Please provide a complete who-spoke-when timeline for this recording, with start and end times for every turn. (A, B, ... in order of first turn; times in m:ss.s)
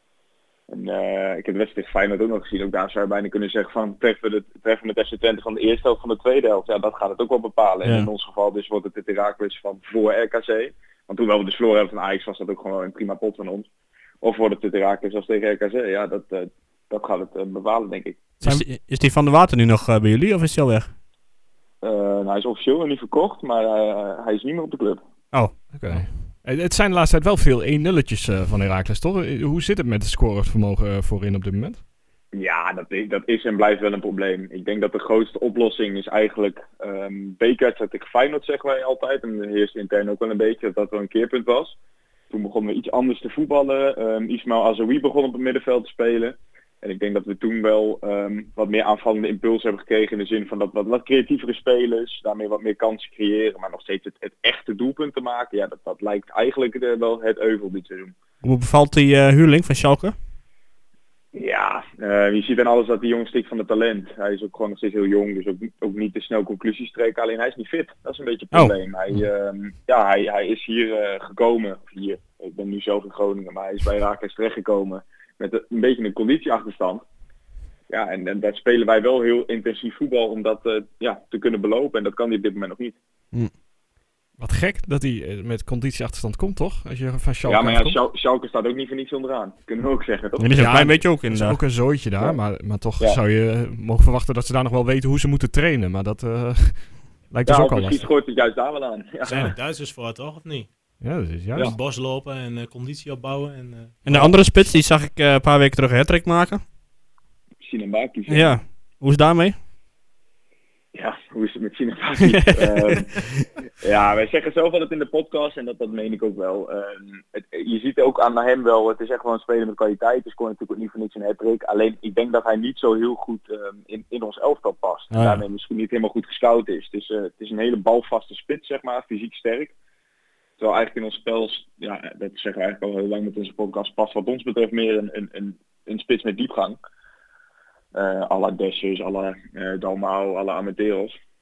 0:00.7-0:13.7 A
0:07.8-0:08.1 B
0:14.2-0:18.3 A
0:18.4-0:20.9 B
0:21.8-0:25.0 A
0:25.7-0:31.8 C
0:32.3-0:41.8 A
0:42.3-0:58.1 A
0:58.4-1:00.2 B
1:01.3-1:17.0 A
1:17.9-1:23.0 A
1:24.4-1:28.0 C
1:27.4-1:30.9 A
1:30.4-1:31.6 B
1:30.6-1:38.0 C
1:37.4-1:39.5 A
1:39.2-1:40.7 D
1:41.0-1:41.7 C
1:41.5-1:44.2 D
1:44.0-1:46.6 B
1:47.6-1:48.6 A
1:48.3-1:49.6 B
1:50.9-1:53.3 A
1:52.3-1:53.5 B
1:53.8-2:09.7 A
2:05.1-2:05.4 B
2:10.6-2:16.8 A
2:17.9-2:21.2 A